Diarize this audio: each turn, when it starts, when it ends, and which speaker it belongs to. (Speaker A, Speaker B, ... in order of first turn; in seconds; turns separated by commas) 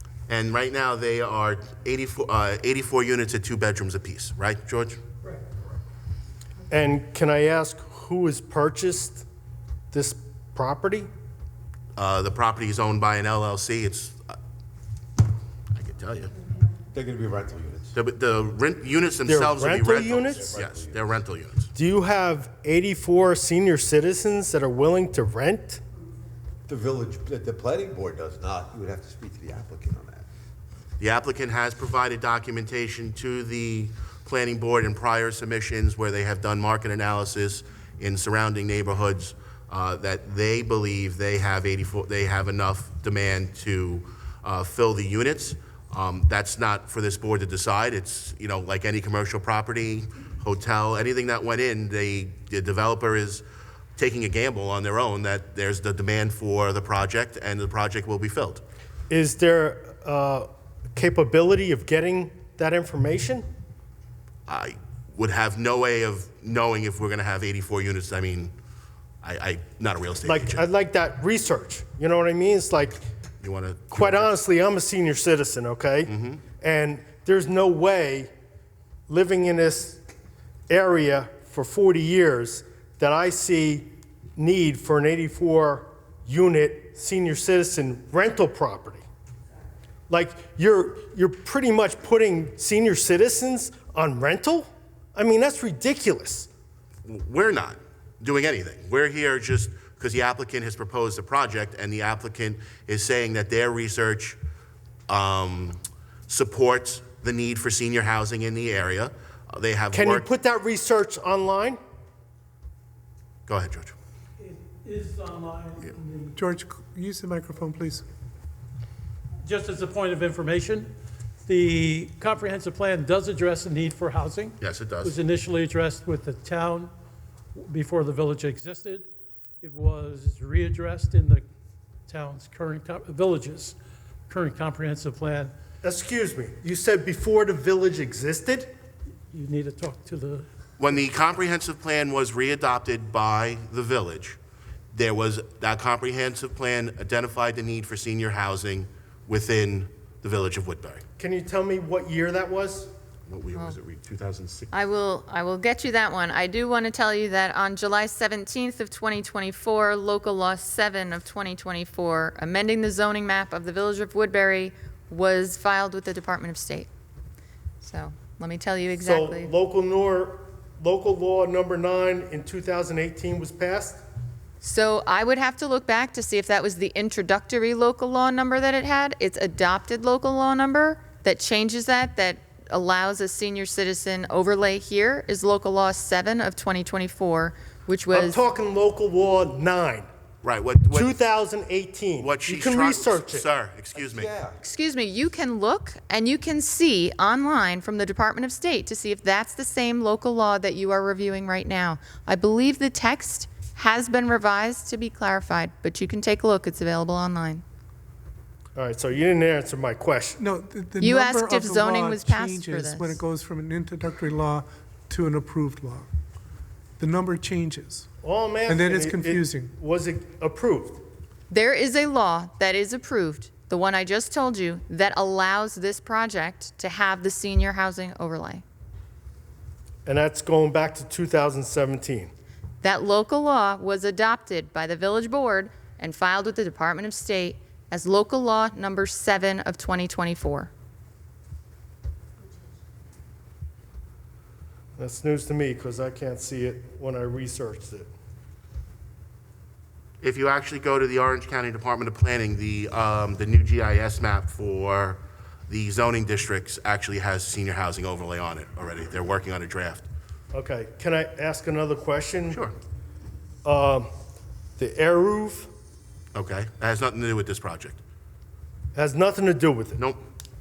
Speaker A: 0.3-5.0, Speaker B: 6.7-9.2, Speaker B: 9.9-11.1, Speaker A: 11.9-14.3, Speaker A: 15.7-16.3, Speaker C: 16.9-17.9, Speaker A: 17.9-21.7, Speaker B: 19.2-20.6, Speaker C: 20.4-21.1, Speaker B: 21.7-25.8, Speaker C: 26.7-30.2, Speaker A: 31.0-53.4, Speaker A: 54.0-58.6, Speaker B: 59.1-63.5, Speaker A: 64.5-68.5, Speaker A: 69.2-70.6, Speaker B: 70.2-73.0, Speaker A: 73.4-74.3, Speaker B: 73.9-78.3, Speaker A: 76.1-76.4, Speaker B: 79.1-80.0, Speaker B: 80.7-89.0, Speaker B: 90.1-96.5, Speaker A: 97.1-104.4, Speaker A: 105.1-110.3, Speaker B: 109.9-111.8, Speaker A: 113.5-113.9, Speaker D: 114.4-116.4, Speaker E: 116.4-118.0, Speaker D: 119.4-120.9, Speaker D: 121.5-126.9, Speaker A: 124.6-125.2, Speaker D: 127.5-129.1, Speaker D: 129.6-131.4, Speaker D: 132.1-133.8, Speaker D: 134.3-135.5, Speaker B: 135.8-138.7, Speaker D: 139.3-140.4, Speaker A: 140.8-144.4, Speaker A: 144.9-151.0, Speaker B: 151.2-152.9, Speaker A: 153.3-154.7, Speaker F: 154.7-166.9, Speaker F: 167.8-169.5, Speaker B: 169.0-174.0, Speaker F: 174.6-188.4, Speaker B: 188.1-190.1, Speaker A: 190.4-191.2, Speaker B: 190.9-193.5, Speaker A: 192.2-194.3, Speaker C: 193.9-194.5, Speaker F: 194.6-207.6, Speaker B: 208.8-210.4, Speaker E: 210.4-216.1, Speaker F: 211.0-213.2, Speaker E: 217.0-218.1, Speaker B: 218.2-221.0, Speaker E: 218.7-219.7, Speaker F: 221.5-228.6, Speaker B: 230.1-232.3, Speaker F: 232.8-240.7, Speaker B: 245.0-248.1, Speaker A: 250.2-260.1, Speaker B: 260.5-262.6, Speaker B: 263.6-264.1, Speaker B: 264.8-265.7, Speaker A: 266.3-268.0, Speaker B: 268.9-270.0